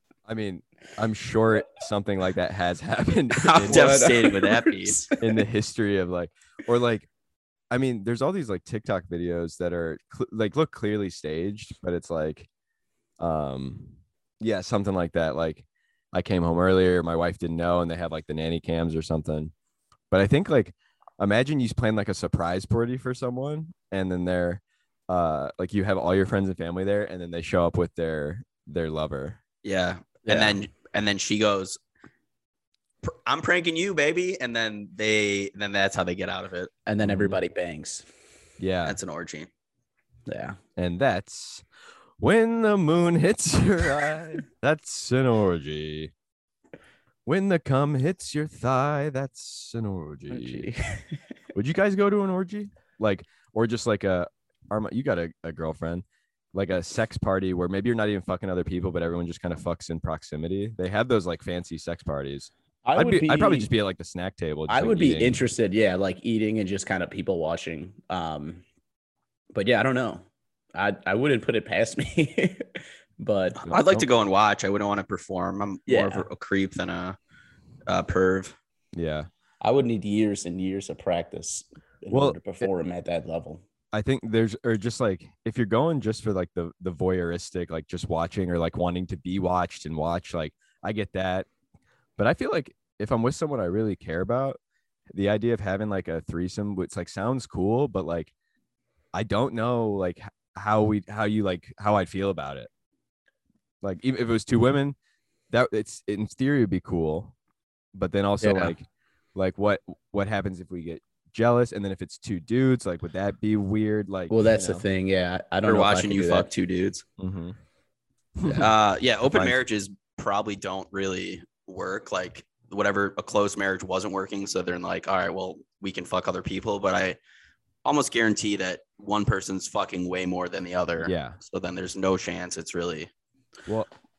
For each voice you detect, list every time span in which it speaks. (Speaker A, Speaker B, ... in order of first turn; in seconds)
Speaker A: 0.2-4.1, 5.2-7.1, 7.7-12.5, 13.2-19.5, 20.1-29.4, 37.0-37.4, 38.6-39.0, 40.8-41.6, 42.2-46.1, 47.2-50.7, 51.5-65.4, 73.7-74.1, 78.9-79.3, 82.1-82.7, 83.9-91.5, 92.2-94.6, 95.1-98.3, 99.1-102.7, 103.8-105.0, 105.5-107.3, 107.9-114.8, 117.2-117.6, 118.4-118.7, 119.3-119.6, 131.0-131.4
Speaker B: 3.4-5.0, 29.6-31.8, 33.0-36.7, 38.8-39.5, 73.6-77.2, 77.9-78.5, 115.6-117.0, 118.5-127.2, 127.8-133.1
Speaker C: 3.6-5.2, 30.3-30.6, 36.9-38.0, 40.3-40.6, 50.3-51.2, 62.8-63.7, 64.7-68.6, 69.5-73.6, 75.9-76.2, 79.6-83.6, 108.4-108.7, 114.3-116.5